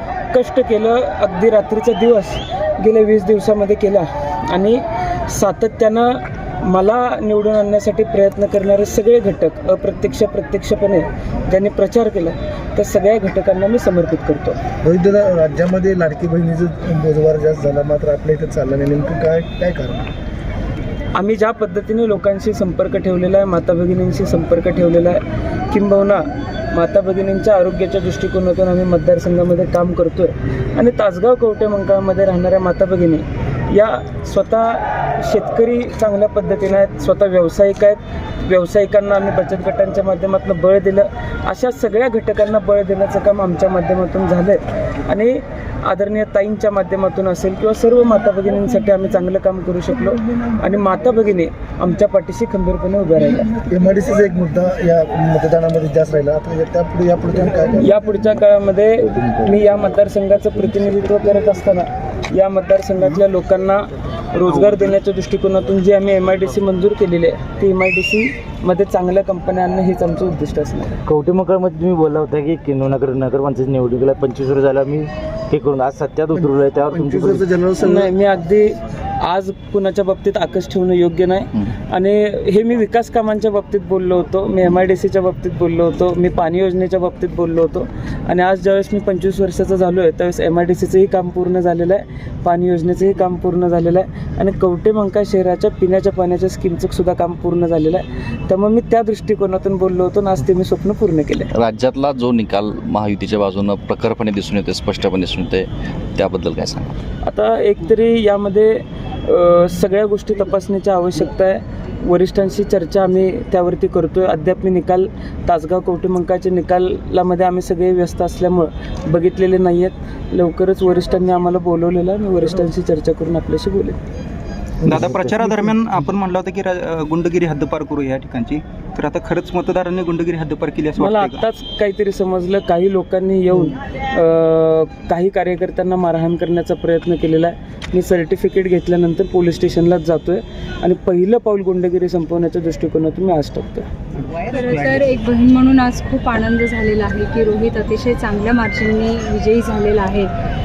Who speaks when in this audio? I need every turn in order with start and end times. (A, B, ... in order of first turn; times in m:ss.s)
0:00.3-0:14.6 A
0:14.8-0:20.1 B
0:21.2-0:53.5 A
0:53.6-0:57.9 B
0:57.8-1:11.0 A
1:11.1-1:17.5 C
1:16.4-1:18.1 B
1:17.8-1:41.5 A
1:41.6-1:46.9 D
1:47.2-2:04.0 A
2:04.8-2:11.4 E
2:04.9-2:05.4 B
2:11.0-2:23.9 A
2:24.5-2:30.3 F